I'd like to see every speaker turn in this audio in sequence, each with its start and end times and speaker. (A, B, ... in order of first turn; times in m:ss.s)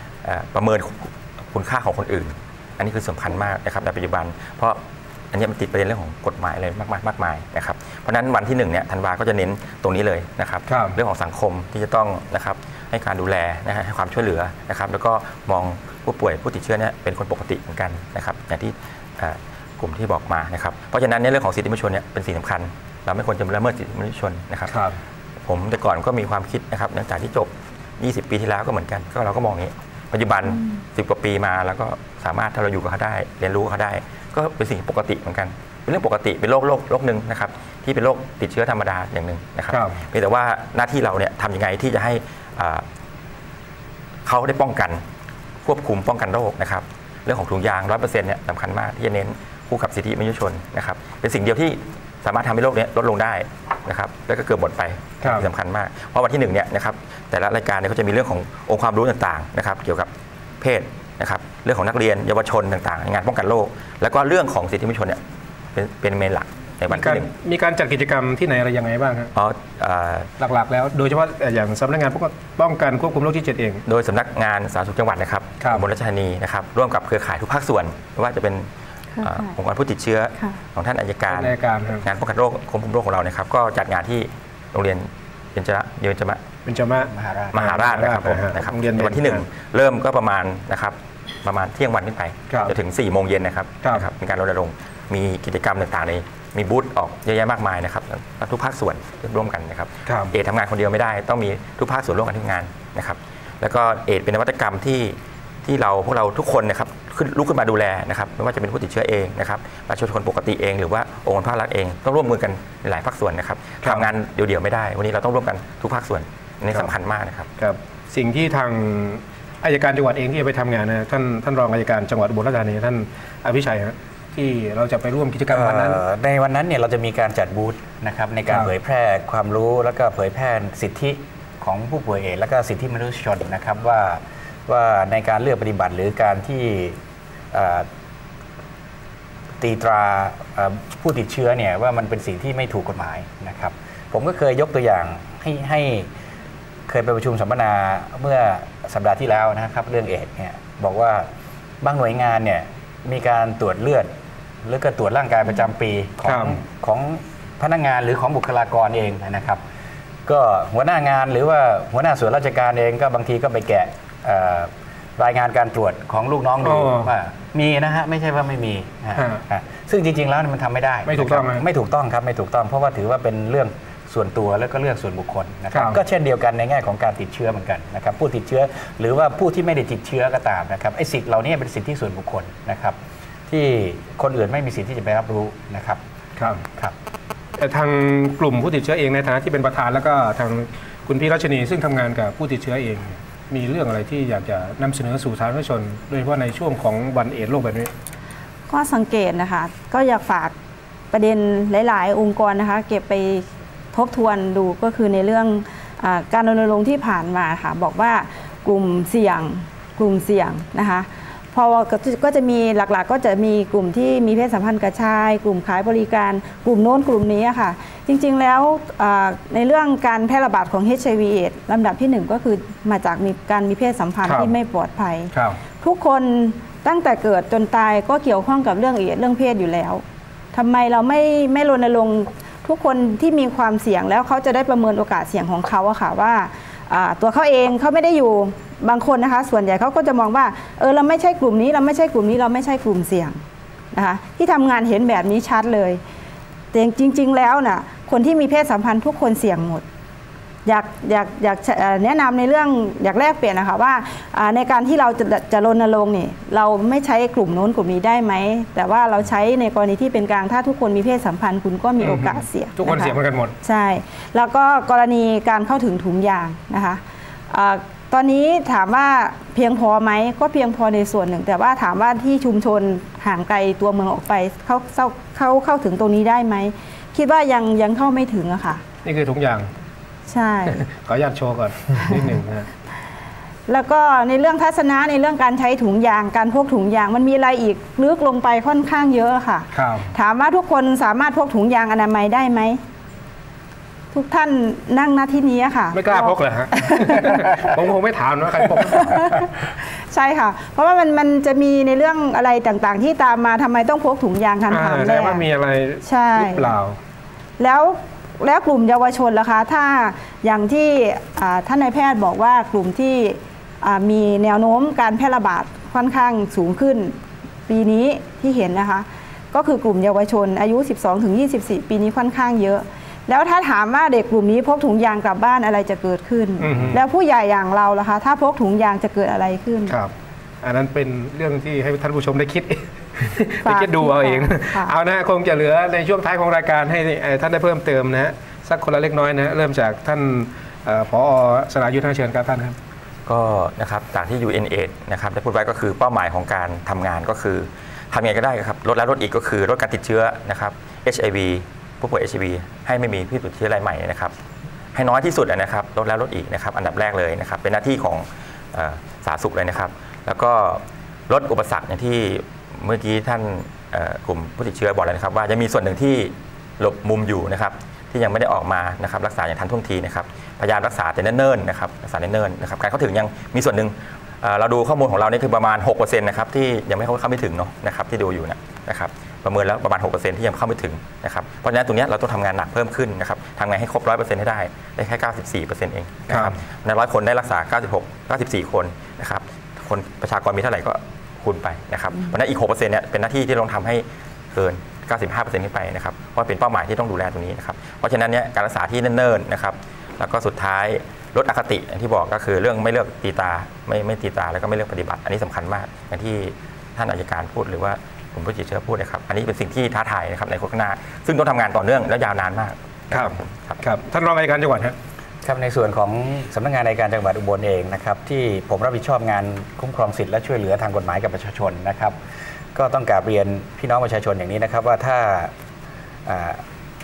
0:00.2-0:04.8 A
0:05.3-0:24.8 A
0:10.7-0:11.0 B
0:24.7-0:25.0 B
0:25.5-0:42.8 A
0:39.7-0:40.0 B
0:44.2-0:45.0 A
0:45.6-1:00.1 A
1:00.6-1:05.2 A
1:05.7-1:07.3 A
1:06.9-1:09.3 B
1:09.4-1:10.3 A
1:10.4-1:13.8 B
1:13.9-1:18.7 A
1:19.2-1:19.5 C
1:19.2-1:26.4 A
1:21.3-1:22.0 B
1:26.7-1:29.4 B
1:27.1-1:27.8 D
1:27.5-1:57.5 A
1:40.1-1:40.3 B
1:57.6-2:06.0 B
2:05.5-2:17.0 D
2:17.5-2:17.9 D
2:19.6-2:26.1 D
2:26.9-2:31.3 D
2:31.8-2:34.1 D
2:34.6-2:39.6 D
2:36.3-2:36.6 B
2:40.3-3:06.0 D
2:46.6-2:47.1 B
2:49.2-2:49.4 B
2:51.1-2:51.6 B
2:55.7-2:56.0 B
3:06.4-3:06.6 B
3:07.6-3:17.9 B
3:18.7-3:20.5 C
3:21.1-3:50.0 C
3:44.3-3:44.5 B
3:45.3-3:45.6 B
3:50.5-4:03.4 C
4:03.9-4:06.0 C
4:06.7-4:09.8 C
4:10.7-4:38.8 C
4:22.0-4:23.6 B
4:39.0-4:39.7 B
4:40.3-4:40.8 C
4:40.7-4:42.7 B
4:43.7-4:52.8 C
4:49.7-4:50.1 B
4:54.1-4:57.5 C
4:55.9-4:59.5 B
4:58.6-5:05.4 C
5:04.7-5:07.0 B
5:06.0-5:06.7 C
5:07.6-5:17.2 C
5:17.7-5:30.0 C
5:26.6-5:27.0 B
5:29.9-5:42.8 B
5:33.6-5:34.9 C
5:43.3-5:54.3 A
5:54.9-6:53.8 A
6:26.3-6:26.6 B
6:53.1-6:55.0 B
6:55.4-7:02.2 D
7:02.7-7:05.5 D
7:06.3-7:06.6 D